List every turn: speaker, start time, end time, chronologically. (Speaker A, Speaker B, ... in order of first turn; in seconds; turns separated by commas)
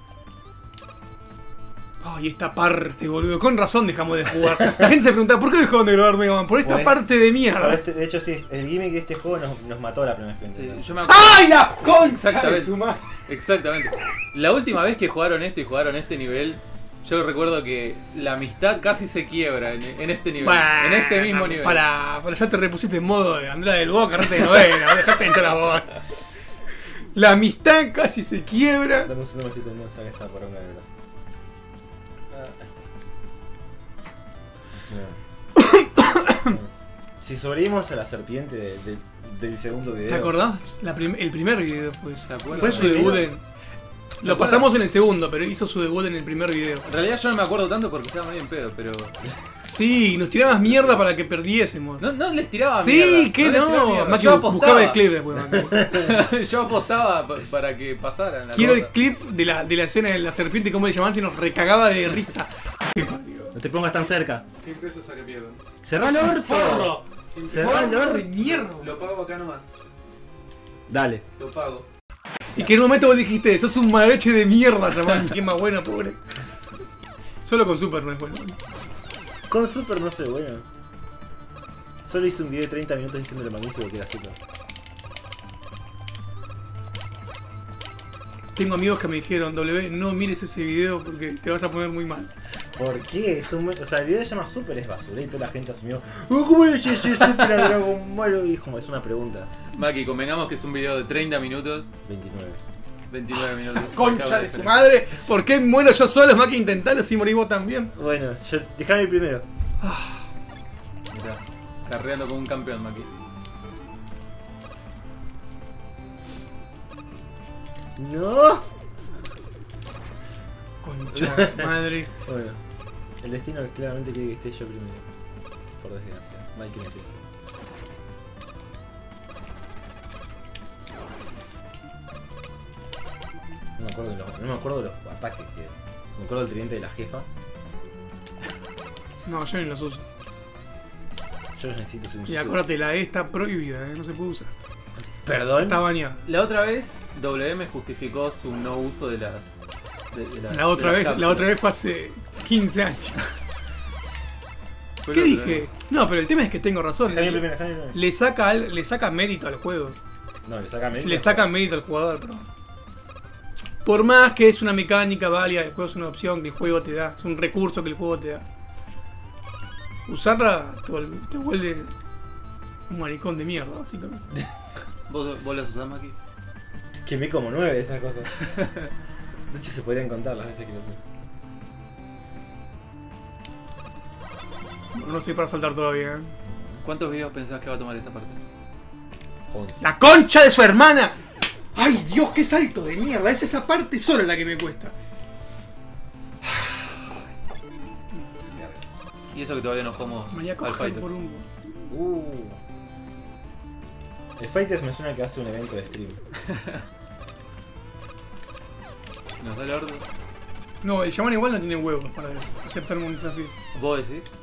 Speaker A: 2.0-7.8, Speaker B: 6.6-10.9, Speaker C: 10.5-21.9, Speaker A: 11.1-13.2, Speaker A: 20.4-26.1, Speaker A: 26.7-29.1, Speaker B: 29.0-30.9, Speaker B: 34.7-35.2, Speaker A: 35.6-36.6, Speaker B: 36.4-36.7, Speaker B: 37.2-40.4, Speaker A: 40.1-43.4, Speaker C: 42.2-43.3, Speaker B: 42.5-43.3, Speaker A: 44.2-46.8, Speaker C: 44.2-44.7, Speaker C: 46.8-49.1, Speaker A: 49.7-52.0, Speaker C: 50.5-51.0, Speaker C: 52.0-55.0, Speaker A: 52.8-55.9, Speaker B: 55.4-56.1, Speaker C: 55.9-58.9, Speaker A: 58.5-63.5, Speaker B: 63.5-64.4, Speaker C: 64.5-65.6, Speaker B: 65.8-68.2, Speaker A: 66.0-68.9, Speaker C: 67.2-69.7, Speaker B: 70.9-71.2, Speaker C: 71.4-71.8, Speaker A: 72.5-76.2, Speaker A: 77.4-78.6, Speaker B: 79.5-80.7, Speaker B: 82.0-84.4, Speaker A: 88.5-92.3, Speaker B: 92.6-99.5, Speaker C: 99.7-101.9, Speaker B: 102.0-102.6, Speaker C: 103.1-104.9, Speaker A: 103.4-107.9, Speaker B: 107.9-109.4, Speaker A: 109.8-110.3, Speaker C: 111.1-113.1, Speaker B: 118.0-118.7, Speaker A: 120.8-122.1, Speaker B: 122.2-122.6, Speaker B: 123.2-125.0, Speaker B: 125.8-127.2, Speaker B: 133.8-137.3, Speaker A: 139.2-140.1, Speaker B: 141.6-142.6, Speaker A: 142.3-144.5, Speaker B: 145.1-145.8, Speaker A: 145.7-146.2, Speaker C: 146.2-151.6, Speaker A: 150.5-153.3, Speaker C: 155.0-155.6, Speaker A: 155.0-160.0, Speaker B: 157.1-158.0, Speaker B: 160.4-161.5, Speaker A: 161.0-162.4, Speaker A: 163.8-168.4, Speaker A: 170.1-171.9, Speaker A: 172.9-174.2, Speaker C: 175.1-176.1, Speaker B: 176.9-178.4, Speaker B: 179.5-181.0, Speaker A: 184.9-186.3, Speaker B: 186.4-186.8, Speaker C: 186.8-188.4, Speaker B: 189.5-189.9, Speaker A: 189.8-191.2, Speaker A: 191.7-194.9, Speaker A: 196.6-196.9, Speaker B: 198.4-198.8, Speaker C: 199.3-201.1, Speaker A: 200.3-201.5, Speaker B: 201.9-202.6, Speaker B: 204.4-206.2, Speaker C: 209.3-210.0, Speaker A: 210.8-213.5, Speaker C: 213.7-214.3